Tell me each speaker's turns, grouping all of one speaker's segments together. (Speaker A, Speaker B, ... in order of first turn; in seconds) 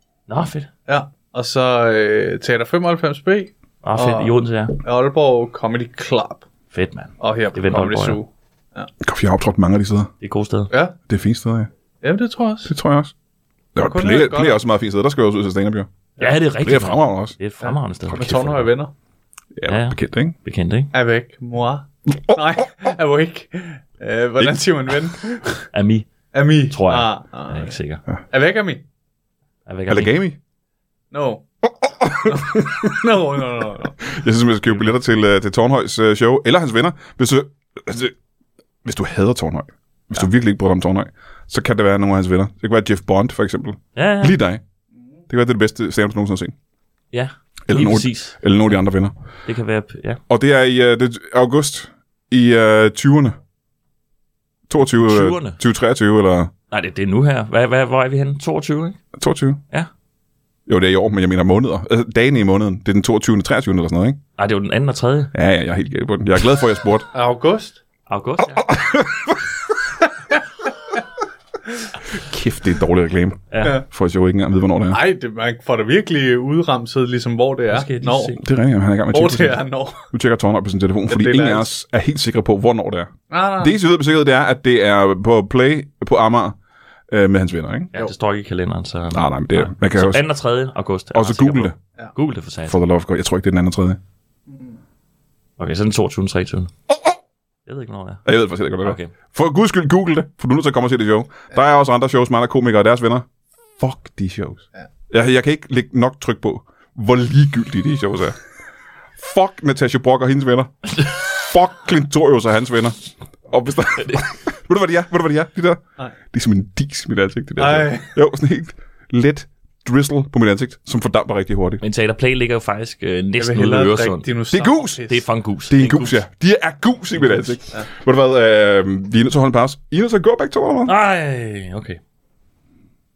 Speaker A: 0.3-0.7, 3.8-4.8, 6.7-8.2, 10.2-10.7, 16.2-18.7, 19.6-20.9, 25.7-26.1, 26.7-28.0, 29.7-30.2, 43.9-44.4, 47.1-48.4, 49.5-50.2, 55.0-55.6, 56.7-59.0, 64.4-65.3, 68.1-68.7, 73.5-73.8, 77.7-78.4, 87.9-92.8, 95.6-96.7, 97.7-98.3, 98.8-99.1, 121.8-124.3, 125.0-126.2, 130.8-132.0
Speaker B: 0.9-6.5, 7.2-8.9, 10.7-10.9, 12.0-12.7, 13.8-14.6, 17.6-18.9, 20.9-25.6, 26.3-27.8, 28.3-28.8, 31.1-31.4, 32.2-34.1, 67.1-67.8, 74.9-78.3, 79.1-80.1, 81.1-81.7, 83.3-83.7, 117.6-118.2, 123.4-125.2
Speaker C: 9.0-10.1, 11.1-11.7, 12.7-13.1, 13.7-15.9, 16.6-17.3, 19.6-20.3, 29.9-30.4, 31.6-32.9, 34.0-38.1, 38.8-44.6, 45.3-46.5, 47.7-49.1, 50.3-53.4, 54.7-56.5, 59.1-59.6, 60.7-64.2, 65.3-67.1, 68.5-69.4, 72.1-75.0, 78.4-86.6, 87.1-87.9, 89.1-90.2, 91.1-91.8, 92.7-94.0, 98.2-103.2, 103.8-108.3, 109.2-121.8, 124.5-125.0, 125.7-130.9